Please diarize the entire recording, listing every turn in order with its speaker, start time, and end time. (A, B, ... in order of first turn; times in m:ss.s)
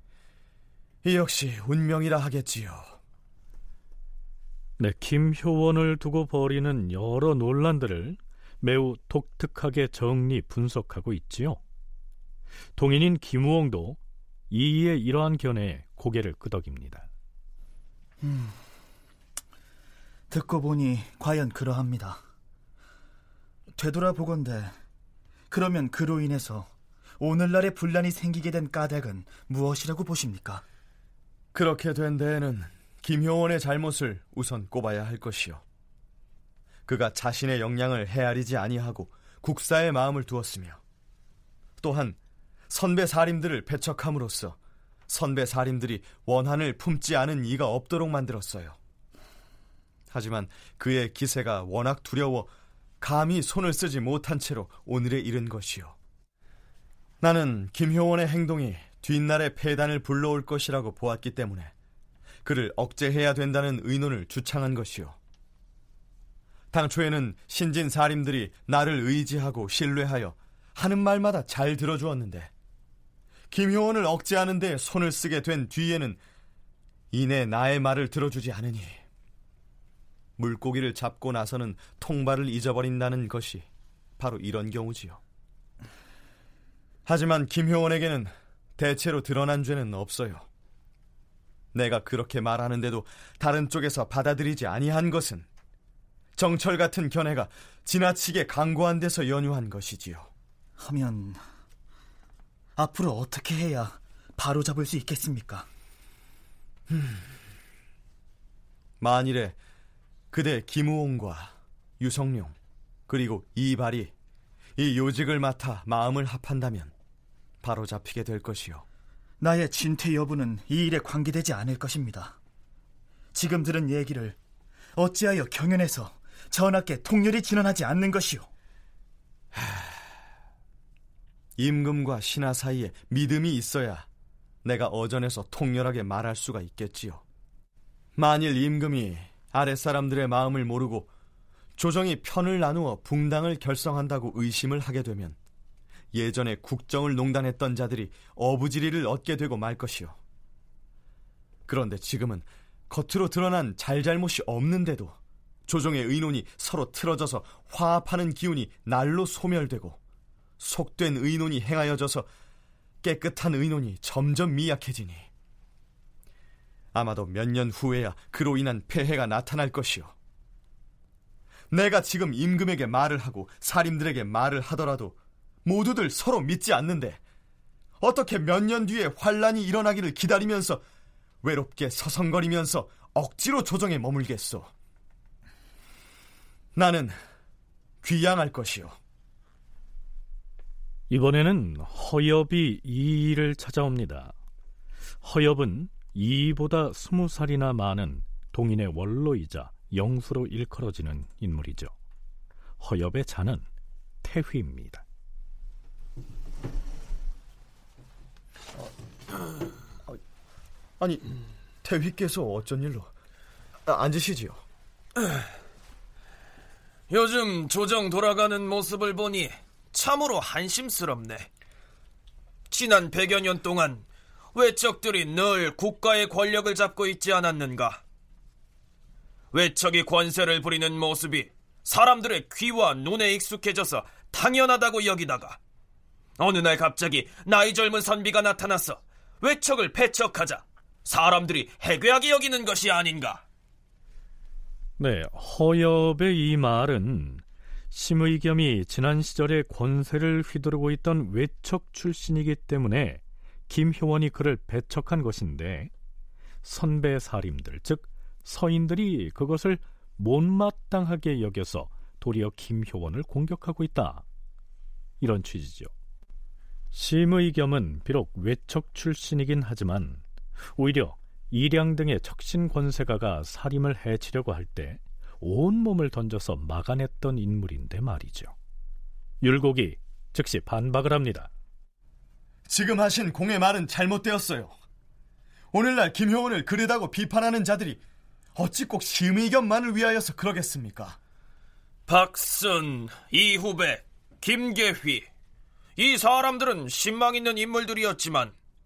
0:01.0-0:03.0 A
0:04.8-0:11.6 B
0:12.8-0:14.0 B
0:14.5-0:17.1 B
0:18.2-0:18.6 C
0:20.3-0:22.2 C
0:23.8-0:24.7 C
0:25.5-0:30.6 C
0:31.5-0:35.6 A
0:36.9-0:40.8 A
0:41.8-0:42.2 A
0:42.7-0:44.6 A
0:45.1-0:48.8 A
0:50.1-0:52.5 A
0:53.0-0:55.9 A
0:57.2-1:01.7 A
1:02.4-1:05.2 A
1:06.7-1:12.5 A
1:13.5-1:16.2 A
1:17.1-1:19.0 A
1:20.4-1:23.7 A
1:24.2-1:25.2 A
1:27.0-1:30.4 A
1:31.7-1:35.5 A
1:36.4-1:40.3 A
1:40.8-1:41.4 C
1:42.8-1:45.7 C
1:46.9-1:47.2 A
1:49.0-1:49.6 A
1:50.3-1:52.6 A
1:53.1-1:54.1 A
1:54.8-1:56.9 A
1:57.6-1:58.8 A
1:59.4-2:02.4 C
2:03.3-2:04.4 C
2:05.0-2:08.5 C
2:11.6-2:14.0 A
2:14.6-2:17.2 A
2:18.2-2:21.1 A
2:21.8-2:25.4 A
2:26.1-2:30.2 A
2:31.7-2:35.2 A
2:35.7-2:40.0 A
2:40.6-2:42.3 A
2:43.0-2:45.3 A
2:46.9-2:50.1 A
2:51.7-2:57.2 A
2:58.0-3:00.8 A
3:01.4-3:04.7 A
3:06.7-3:07.2 A
3:08.0-3:09.0 A
3:11.1-3:14.3 B
3:15.2-3:21.9 B
3:22.8-3:23.6 B
3:24.2-3:25.0 B
3:31.0-3:31.3 A
3:31.8-3:33.1 A
3:33.8-3:34.6 A
3:37.1-3:41.5 D
3:42.7-3:48.0 D
3:49.5-3:55.6 D
3:56.4-4:03.4 D
4:05.0-4:15.9 B
4:16.6-4:24.2 B
4:25.2-4:25.9 B
4:26.9-4:30.2 B
4:30.8-4:38.5 B
4:39.4-4:41.5 B
4:42.7-4:44.7 A
4:45.7-4:48.0 A
4:48.6-4:51.2 A
4:52.1-4:55.3 D
4:56.0-4:58.6 D